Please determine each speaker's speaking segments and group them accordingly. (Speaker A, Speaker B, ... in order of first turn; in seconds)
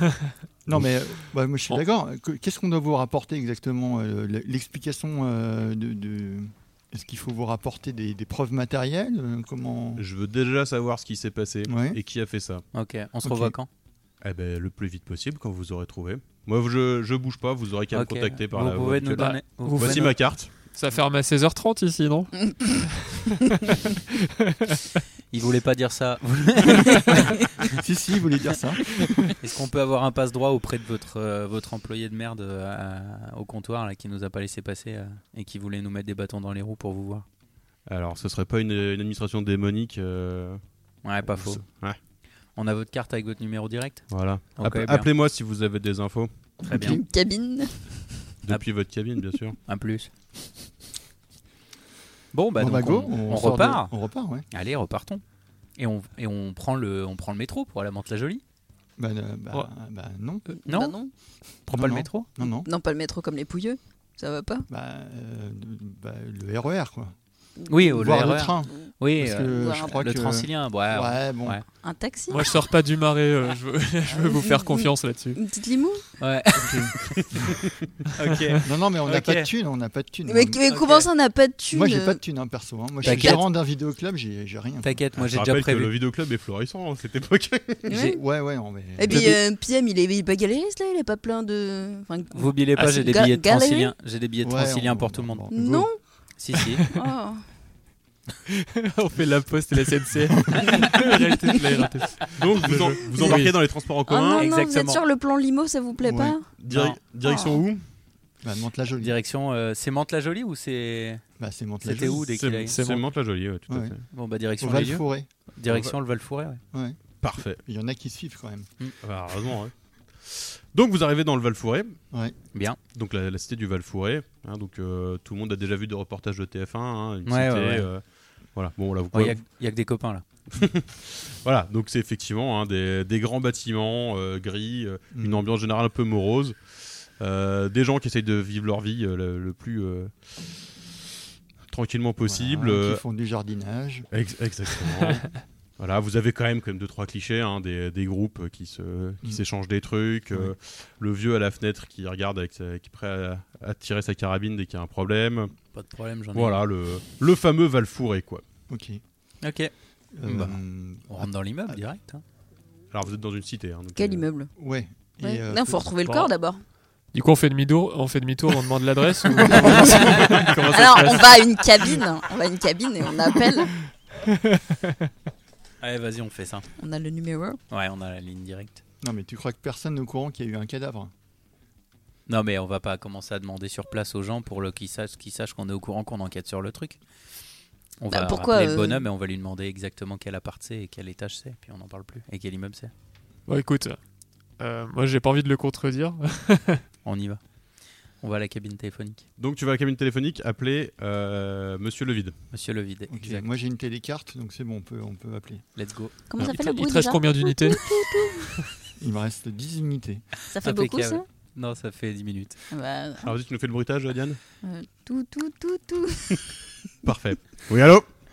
Speaker A: 0.7-10.0, 11.7-12.0, 13.2-13.5, 27.6-29.3, 52.5-54.5, 59.0-60.4, 61.7-62.7, 64.7-67.1, 67.9-71.6, 76.6-77.5, 78.6-80.6, 81.7-85.0, 87.9-89.3, 94.4-95.9, 106.0-106.4, 108.4-109.1, 111.4-112.2, 113.7-113.9, 114.6-115.3, 116.7-117.0, 117.6-118.7, 135.1-135.4, 142.2-144.1, 158.7-159.0, 160.1-161.8, 164.6-165.8, 179.0-181.1, 203.1-205.6, 209.0-210.2
Speaker B: 10.0-12.6, 14.2-20.5, 37.9-40.6, 41.3-42.0, 44.1-46.3, 48.4-49.6, 85.2-87.9, 102.3-104.5, 106.6-107.8, 112.2-114.0, 115.7-116.0, 117.2-117.6, 119.0-122.0, 122.9-128.0, 128.5-129.4, 130.5-136.6, 137.2-140.1, 141.7-143.0, 144.1-145.3, 145.8-155.5, 156.3-158.4, 162.9-164.2, 199.4-202.3, 213.2-214.4, 217.0-218.1
Speaker C: 12.7-13.7, 17.9-20.1, 25.3-27.8, 29.4-37.2, 41.0-41.6, 42.5-45.1, 46.7-47.0, 49.6-50.1, 52.3-53.9, 54.5-55.2, 55.8-58.4, 60.7-61.0, 61.7-62.3, 67.7-71.6, 76.2-77.4, 78.2-79.5, 80.7-81.1, 83.0-83.4, 84.8-85.9, 87.9-88.2, 89.1-89.3, 92.3-95.5, 96.4-96.9, 104.3-105.0, 106.7-107.0, 109.0-111.2, 111.8-112.8, 114.1-116.6, 127.2-127.9, 129.1-130.2, 155.7-156.6, 159.4-159.7, 160.2-162.2, 169.9-170.5, 175.8-176.7, 177.7-178.8, 182.3-187.0, 188.0-192.9, 197.0-197.4, 198.2-199.2, 202.5-203.5, 205.8-206.2, 210.6-212.6
Speaker D: 19.2-24.8, 72.3-75.4, 98.5-103.5, 112.7-113.0, 166.0-166.3, 167.1-171.5, 174.2-175.1, 193.5-194.0, 194.6-196.8, 206.4-208.7
Speaker E: 46.7-48.1, 60.5-61.1, 62.4-64.7, 67.6-68.9, 69.5-70.0, 71.8-72.6, 74.1-76.0, 80.2-82.2, 83.0-83.4, 87.9-88.2, 89.0-93.9, 95.5-96.0, 96.9-97.4, 104.0-106.5, 107.2-107.6, 163.9-164.5, 165.2-166.6, 169.6-173.7, 176.8-177.6, 188.1-189.1, 206.3-208.6, 210.5-211.2, 212.7-213.3, 214.6-216.4